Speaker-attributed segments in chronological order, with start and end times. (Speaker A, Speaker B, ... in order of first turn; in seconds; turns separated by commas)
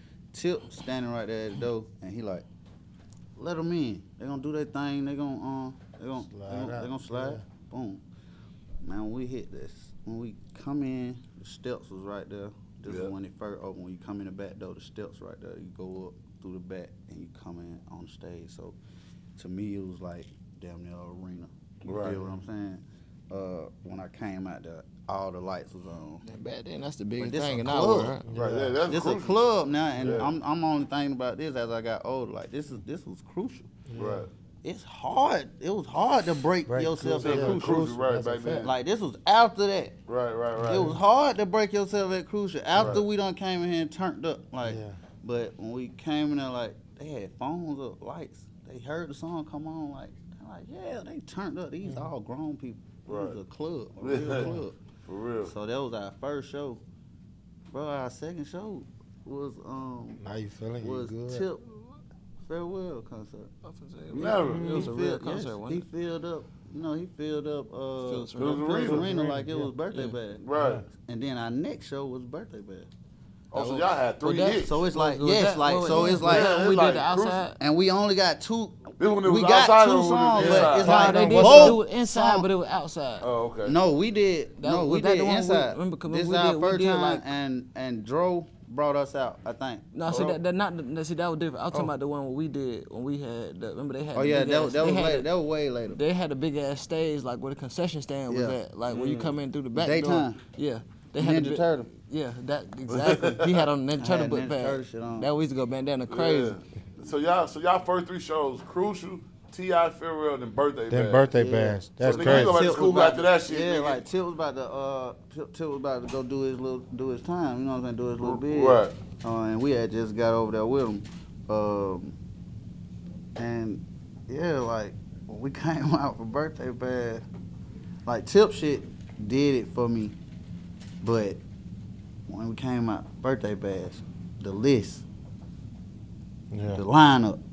Speaker A: 0.3-2.5, Speaker A: 3.4-8.0, Speaker B: 6.3-7.4, Speaker A: 8.8-18.8, Speaker C: 12.9-13.1, Speaker A: 19.4-26.2, Speaker C: 21.9-22.3, Speaker D: 26.2-28.2, Speaker A: 27.2-28.2, Speaker B: 28.3-28.8, Speaker C: 28.3-29.4, Speaker A: 28.9-33.7, Speaker C: 30.0-30.3, Speaker B: 33.9-34.3, Speaker C: 34.0-34.3, Speaker A: 34.6-37.9, Speaker B: 36.7-38.7, Speaker C: 37.1-38.7, Speaker A: 38.6-40.0, Speaker C: 40.1-40.9, Speaker B: 40.6-41.0, Speaker A: 40.6-54.8, Speaker C: 42.8-43.0, Speaker B: 42.8-43.0, Speaker B: 44.6-45.0, Speaker B: 51.8-52.1, Speaker C: 53.1-53.4, Speaker C: 54.0-54.5, Speaker B: 54.2-54.6, Speaker C: 55.1-55.5, Speaker A: 55.4-56.8, Speaker A: 57.7-60.2, Speaker B: 60.2-61.5, Speaker A: 60.8-61.8, Speaker A: 62.5-63.5, Speaker D: 63.6-65.8, Speaker C: 64.1-64.9, Speaker B: 64.4-64.9, Speaker A: 64.7-70.4, Speaker D: 68.0-68.8, Speaker C: 68.4-69.1, Speaker B: 68.8-69.7, Speaker D: 69.9-70.2, Speaker C: 70.4-70.8, Speaker B: 70.5-70.9, Speaker A: 71.0-72.9, Speaker C: 73.5-74.8, Speaker D: 73.5-77.6, Speaker A: 74.6-76.5, Speaker B: 75.9-76.2, Speaker C: 76.2-77.4, Speaker A: 77.6-82.5, Speaker C: 79.0-81.1, Speaker B: 80.3-81.8, Speaker D: 80.8-83.3, Speaker C: 83.2-83.8, Speaker A: 83.7-90.4, Speaker D: 84.6-87.2, Speaker D: 89.9-95.3, Speaker A: 94.1-96.0, Speaker D: 95.9-106.5, Speaker A: 98.3-98.6, Speaker C: 98.9-99.3, Speaker A: 99.7-100.4, Speaker A: 101.2-101.9, Speaker C: 102.9-103.7, Speaker A: 104.0-105.3, Speaker C: 106.1-111.3, Speaker B: 110.9-112.5, Speaker A: 111.3-122.2, Speaker C: 112.0-114.0, Speaker C: 118.2-118.9, Speaker A: 123.4-127.2, Speaker A: 128.1-130.2, Speaker A: 131.0-131.4, Speaker A: 132.3-135.1, Speaker B: 136.5-136.8, Speaker A: 136.7-137.4